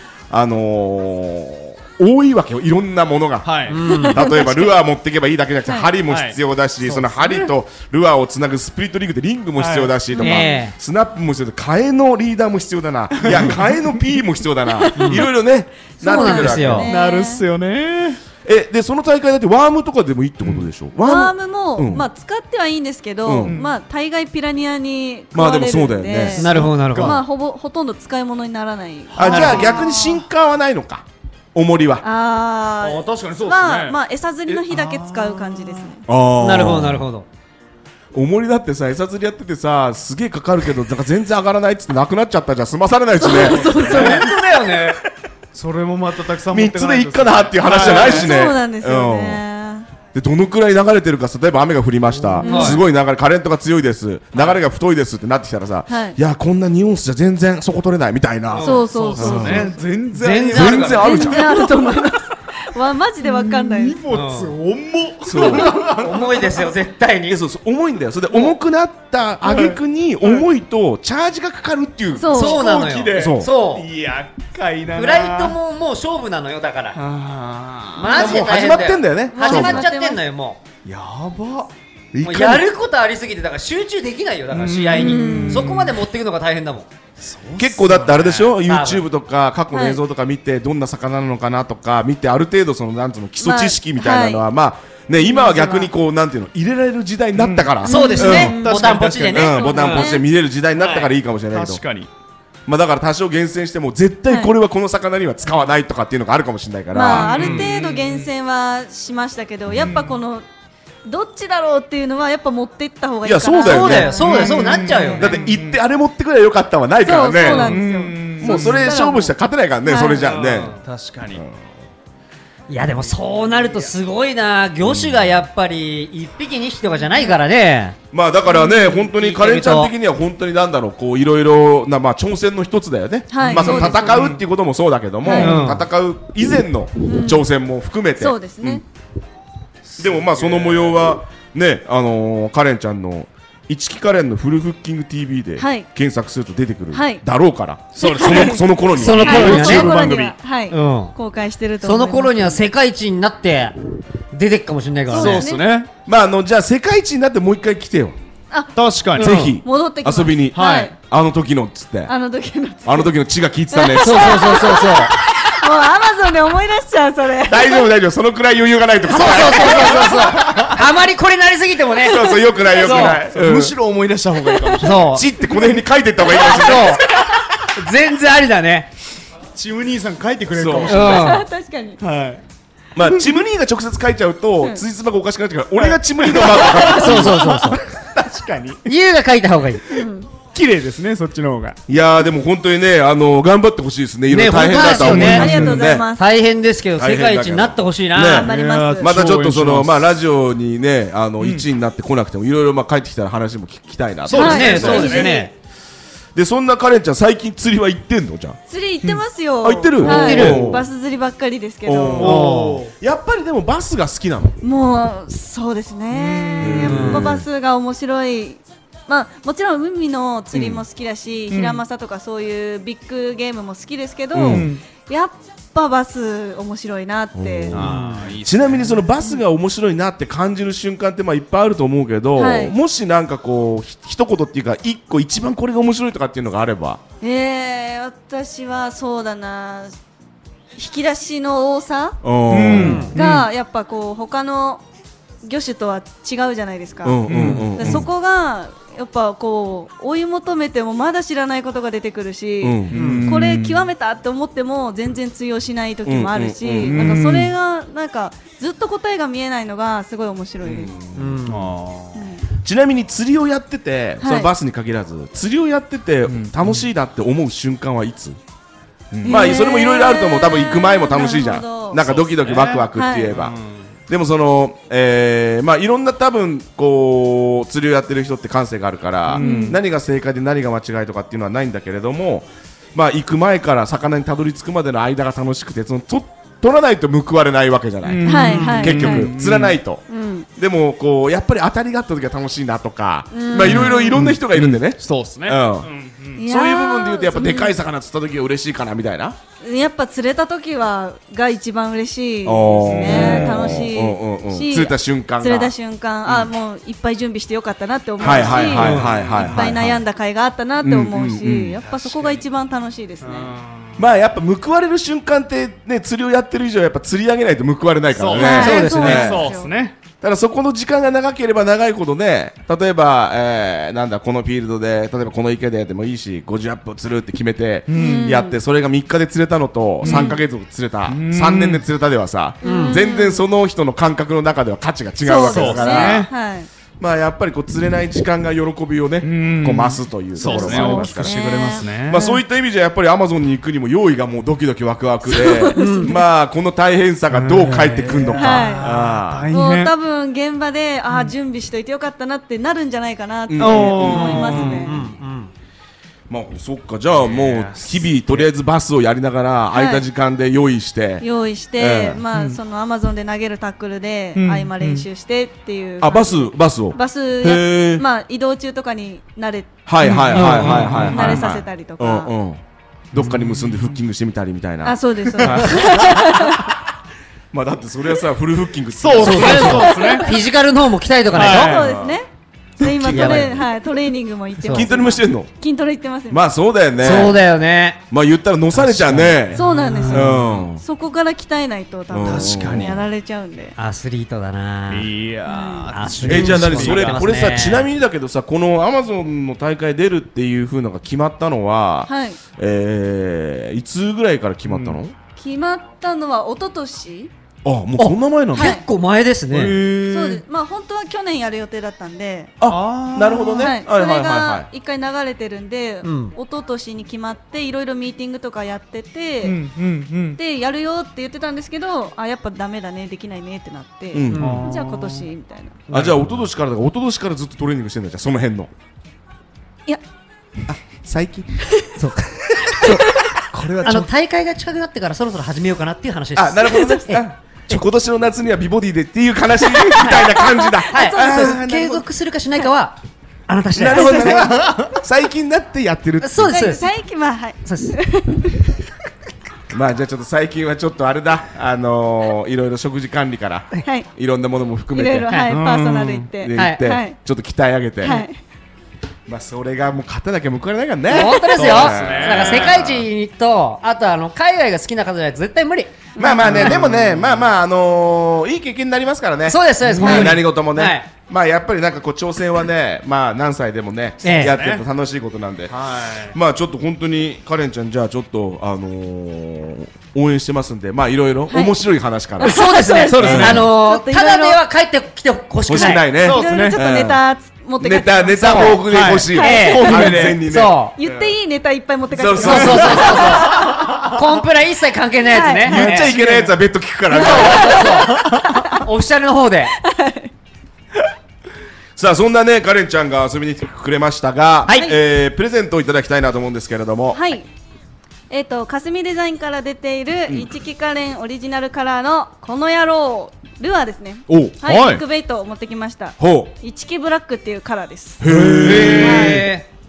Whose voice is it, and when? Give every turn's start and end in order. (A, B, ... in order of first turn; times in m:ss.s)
0:00.3-0:16.9 A
0:03.4-0:03.8 B
0:03.7-0:04.2 C
0:03.9-0:04.7 D
0:05.6-0:05.9 D
0:06.0-0:06.4 B
0:06.8-0:07.5 C
0:09.6-0:09.9 B
0:10.2-0:10.5 D
0:10.2-0:10.7 C
0:13.2-0:13.8 B
0:14.8-0:15.2 D
0:14.9-0:15.3 C
0:16.0-0:16.9 C
0:16.0-0:17.4 D
0:16.8-0:18.2 B
0:18.4-0:22.1 A
0:21.0-0:30.0 D
0:23.2-0:23.5 A
0:23.4-0:23.7 B
0:25.3-0:26.6 A
0:26.4-0:27.2 C
0:26.4-0:27.2 B
0:29.1-0:30.0 B
0:29.1-0:32.0 A
0:32.0-0:36.0 D
0:32.8-0:34.0 B
0:34.5-0:35.9 B
0:36.0-0:37.0 A
0:36.4-0:37.2 C
0:38.1-0:44.2 A
0:43.2-0:44.3 D
0:43.3-0:44.3 B
0:43.7-0:45.0 C
0:45.5-0:48.4 B
0:46.5-0:49.4 A
0:47.6-0:49.9 D
0:50.1-0:59.7 A
0:52.4-0:52.8 C
0:52.4-0:52.8 D
0:55.9-0:56.2 D
0:58.5-0:58.8 C
0:58.6-0:59.8 D
0:58.9-1:02.0 B
1:00.1-1:01.1 C
1:00.4-1:01.8 A
1:01.0-1:04.0 D
1:03.2-1:06.7 B
1:04.1-1:04.5 C
1:05.2-1:05.8 A
1:05.4-1:07.4 C
1:07.3-1:12.3 A
1:09.4-1:10.4 B
1:12.1-1:12.7 D
1:12.3-1:13.9 C
1:12.3-1:15.6 B
1:13.1-1:13.5 A
1:14.9-1:17.0 C
1:16.9-1:18.3 B
1:18.0-1:20.6 C
1:18.1-1:19.9 A
1:18.1-1:18.4 D
1:19.3-1:20.2 D
1:20.8-1:21.7 B
1:22.1-1:22.7 A
1:22.2-1:26.9 C
1:24.5-1:25.9 B
1:24.9-1:25.8 D
1:27.2-1:28.5 B
1:27.6-1:38.6 A
1:28.6-1:29.0 C
1:29.7-1:30.0 D
1:33.4-1:34.4 D
1:35.2-1:35.9 D
1:37.4-1:39.4 B
1:37.8-1:38.8 D
1:37.8-1:40.2 C
1:39.3-1:41.8 A
1:39.3-1:40.2 D
1:40.8-1:41.1 C
1:41.5-1:42.1 B
1:42.7-1:47.6 A
1:46.9-1:50.4 D
1:47.1-1:48.3 B
1:47.4-1:47.6 C
1:49.8-1:50.2 B
1:51.0-1:55.3 D
1:53.2-1:54.2 A
1:53.6-1:55.4 C
1:54.1-1:55.8 B
1:55.2-1:57.8 A
1:57.0-2:00.3 D
1:57.4-1:59.0 B
1:58.4-2:00.8 A
2:00.3-2:00.8 C
2:00.3-2:01.4 B
2:01.3-2:01.6 A
2:02.7-2:08.0 C
2:04.8-2:05.3 A
2:08.1-2:18.8 A
2:08.5-2:09.0 D
2:09.1-2:09.9 C
2:13.3-2:14.1 D
2:13.5-2:14.4 B
2:13.5-2:14.0 C
2:15.2-2:15.5 D
2:15.3-2:15.8 C
2:15.3-2:15.8 B
2:17.0-2:17.5 D
2:18.2-2:18.8 D
2:19.9-2:21.0 B
2:20.0-2:30.4 A
2:25.6-2:25.9 D
2:26.9-2:27.2 D
2:28.0-2:28.6 B
2:28.0-2:28.6 D
2:28.9-2:30.0 C
2:29.1-2:29.7 B
2:29.2-2:32.6 D
2:30.7-2:31.1 C
2:31.8-2:33.7 C
2:34.3-2:35.5 C
2:35.1-2:35.6 D
2:35.1-2:35.9 B
2:36.0-2:38.2 A
2:38.5-2:40.9 D
2:38.7-2:39.3 B
2:39.2-2:39.6 C
2:39.2-2:42.1 A
2:40.5-2:40.9 B
2:42.1-2:43.1 D
2:42.8-2:44.8 A
2:43.7-2:47.9 D
2:44.0-2:45.1 C
2:47.5-2:50.3 A
2:49.1-2:53.2 C
2:49.4-2:50.8 B
2:49.6-2:50.1 D
2:52.0-2:53.8 A
2:52.1-2:53.2 D
2:52.9-2:55.2 B
2:54.4-2:54.8 D
2:54.8-2:55.2 C
2:55.1-2:57.2 A
2:56.3-2:57.0 C
2:57.7-2:58.9 C
2:59.5-3:01.4 B
3:00.5-3:01.1 A
3:00.9-3:01.4 C
3:00.9-3:02.0 D
3:02.0-3:02.4 B
3:02.9-3:07.4 A
3:05.8-3:08.9 B
3:06.9-3:07.8 C
3:08.8-3:09.8 C
3:09.9-3:11.8 B
3:09.9-3:10.3 D
3:11.9-3:16.1 A
3:14.3-3:18.5 C
3:14.7-3:16.2 D
3:15.0-3:15.8 B
3:17.0-3:25.4 A
3:18.2-3:19.2 D
3:18.4-3:20.0 B
3:21.4-3:21.6 B
3:24.2-3:25.4 B
3:24.3-3:25.5 C
3:24.3-3:25.4 D
3:26.3-3:28.6 A
3:28.7-3:32.3 D
3:29.6-3:30.9 A
3:30.0-3:30.7 C
3:31.8-3:34.6 A
3:32.2-3:32.9 B
3:32.2-3:32.9 C
3:34.6-3:47.8 D
3:36.1-3:37.2 B
3:36.6-3:37.4 A
3:36.8-3:37.3 C
3:40.5-3:40.8 A
3:41.5-3:41.8 B
3:44.3-3:44.7 A
3:44.4-3:44.8 B
3:47.3-3:57.0 A
3:47.7-3:49.1 B
3:47.8-3:48.3 C
3:52.4-3:52.7 D
3:57.2-3:59.9 D
4:00.8-4:02.2 D
4:02.2-4:03.1 A
4:02.5-4:03.5 B
4:02.7-4:03.1 C
4:02.8-4:04.8 D
4:05.4-4:20.9 D
4:07.0-4:08.1 A
4:07.3-4:08.0 B
4:07.4-4:07.7 C
4:12.6-4:13.0 A
4:12.9-4:13.9 B
4:12.9-4:13.3 C
4:16.0-4:17.2 A
4:16.8-4:17.5 B
4:20.6-4:21.4 A
4:21.1-4:21.7 C
4:21.4-4:22.2 B
4:22.1-4:22.4 D
4:22.5-4:28.4 A
4:24.2-4:24.5 D
4:26.2-4:26.9 B
4:29.1-4:29.6 B
4:29.2-4:32.1 D
4:29.2-4:33.6 A
4:32.0-4:33.8 B
4:32.9-4:33.4 D
4:34.1-4:50.0 A
4:39.3-4:39.8 B
4:39.4-4:39.8 D
4:48.0-4:49.8 B
4:48.2-4:49.3 D
4:50.1-4:50.5 D
4:50.6-4:55.9 A
4:53.3-4:54.2 D
4:53.6-4:56.4 B
4:56.4-4:57.7 D
4:56.4-4:59.4 A
4:59.6-5:13.5 D
5:02.4-5:05.7 A
5:02.8-5:03.8 B
5:08.2-5:10.0 A
5:08.2-5:09.7 B
5:08.8-5:09.1 C
5:10.8-5:11.8 A
5:11.9-5:12.4 B
5:13.2-5:14.0 B
5:14.0-5:19.6 A
5:18.1-5:19.9 B
5:18.3-5:19.7 D
5:20.2-5:36.3 A
5:27.9-5:28.3 B
5:27.9-5:28.6 D
5:30.0-5:30.4 B
5:30.0-5:30.3 D
5:31.1-5:31.8 B
5:32.6-5:33.0 C
5:32.6-5:33.4 D
5:35.2-5:36.7 D
5:35.4-5:36.3 B
5:37.0-5:41.4 A
5:39.2-5:42.2 B
5:40.4-5:42.4 D
5:42.0-5:49.5 A
5:45.3-5:46.2 D
5:45.8-5:46.1 C
5:47.3-5:49.9 B
5:48.4-5:48.9 D
5:49.5-5:55.0 D
5:53.5-5:54.8 A
5:53.6-5:54.9 B
5:54.5-5:55.5 C
5:56.3-6:01.2 A
5:57.2-5:58.4 B
5:59.7-6:00.0 D
6:01.2-6:12.3 D
6:01.8-6:02.2 A
6:02.3-6:02.6 B
6:04.4-6:05.0 B
6:06.0-6:08.0 A
6:09.8-6:16.3 A
6:10.0-6:11.5 B
6:10.3-6:11.1 C
6:13.1-6:14.0 B
6:14.8-6:16.7 D
6:15.4-6:16.2 B
6:17.5-6:19.9 A
6:19.0-6:20.4 B
6:19.2-6:21.8 C
6:19.6-6:20.3 D
6:21.3-6:21.9 B
6:21.4-6:22.3 D
6:21.4-6:22.2 A
6:22.8-6:26.4 D
6:22.8-6:23.6 A
6:23.1-6:23.5 C
6:24.6-6:24.9 C
6:24.7-6:25.5 A
6:26.3-6:27.4 A
6:27.0-6:28.0 C
6:28.1-6:30.8 A
6:28.7-6:30.1 C
6:29.5-6:33.7 D
6:29.6-6:30.4 B
6:32.1-6:33.0 A
6:32.2-6:33.0 B
6:33.8-6:35.1 C
6:34.9-6:37.3 B
6:35.4-6:36.1 D
6:35.9-6:37.9 C
6:36.2-6:45.1 A
6:42.1-6:42.4 D
6:44.7-6:45.0 B
6:45.4-6:47.3 D
6:47.6-6:48.8 A
6:48.0-6:49.8 C
6:48.6-6:48.8 D
6:49.5-6:50.4 B
6:50.1-6:52.5 D
6:52.6-6:54.7 A
6:52.6-6:53.7 B
6:53.6-6:59.6 D
6:56.0-6:56.3 C
6:59.4-7:00.4 B
7:00.4-7:05.8 D
7:04.1-7:04.6 A
7:04.3-7:04.7 C
7:04.3-7:05.3 B
7:05.9-7:06.3 C
7:05.9-7:08.7 A
7:10.7-7:11.5 A
7:12.0-7:12.7 C
7:12.8-7:13.1 A
7:12.8-7:13.3 D
7:13.4-7:14.1 B
7:13.8-7:17.8 C
7:16.4-7:22.0 A
7:16.7-7:17.1 D
7:19.9-7:23.0 C
7:20.2-7:21.7 D
7:23.5-7:24.6 C
7:23.8-7:26.6 A
7:24.5-7:24.9 B
7:26.2-7:26.9 C
7:26.5-7:28.8 D
7:27.6-7:28.0 C
7:29.7-7:35.5 A
7:34.9-7:37.2 D
7:35.5-7:36.3 B
7:36.4-7:38.2 A
7:36.5-7:36.8 C
7:38.0-7:38.3 D
7:39.3-7:43.1 A
7:41.1-7:46.0 C
7:41.6-7:42.8 B
7:46.2-8:03.7 A
7:46.2-7:46.8 D
7:46.2-7:47.5 B
7:49.4-7:51.1 C
7:49.8-7:50.4 B
7:50.0-7:50.3 D
7:54.2-7:54.5 C
7:54.2-7:54.8 B
7:55.7-7:56.4 B
8:01.5-8:01.8 D
8:02.4-8:04.6 D
8:02.4-8:06.1 C
8:03.1-8:03.6 B
8:05.7-8:07.2 A
8:05.8-8:08.8 D
8:06.2-8:06.8 B
8:07.8-8:11.3 A
8:08.4-8:08.8 C
8:08.7-8:10.4 B
8:09.3-8:10.2 D
8:09.4-8:10.9 C
8:11.0-8:13.9 D
8:12.1-8:13.4 A
8:12.4-8:16.1 C
8:12.4-8:14.0 B
8:15.2-8:16.5 D
8:15.6-8:18.0 A
8:15.8-8:16.3 B
8:17.1-8:18.8 D
8:17.1-8:19.7 C
8:18.1-8:18.6 B
8:19.8-8:20.3 D
8:22.0-8:27.2 A
8:24.6-8:24.9 C
8:27.1-8:27.4 D
8:28.3-8:38.2 D
8:34.3-8:34.6 A
8:34.6-8:35.0 B
8:36.2-8:36.5 A
8:38.2-8:39.4 A
8:38.2-8:39.4 B
8:38.6-8:39.6 C
8:39.0-8:39.5 D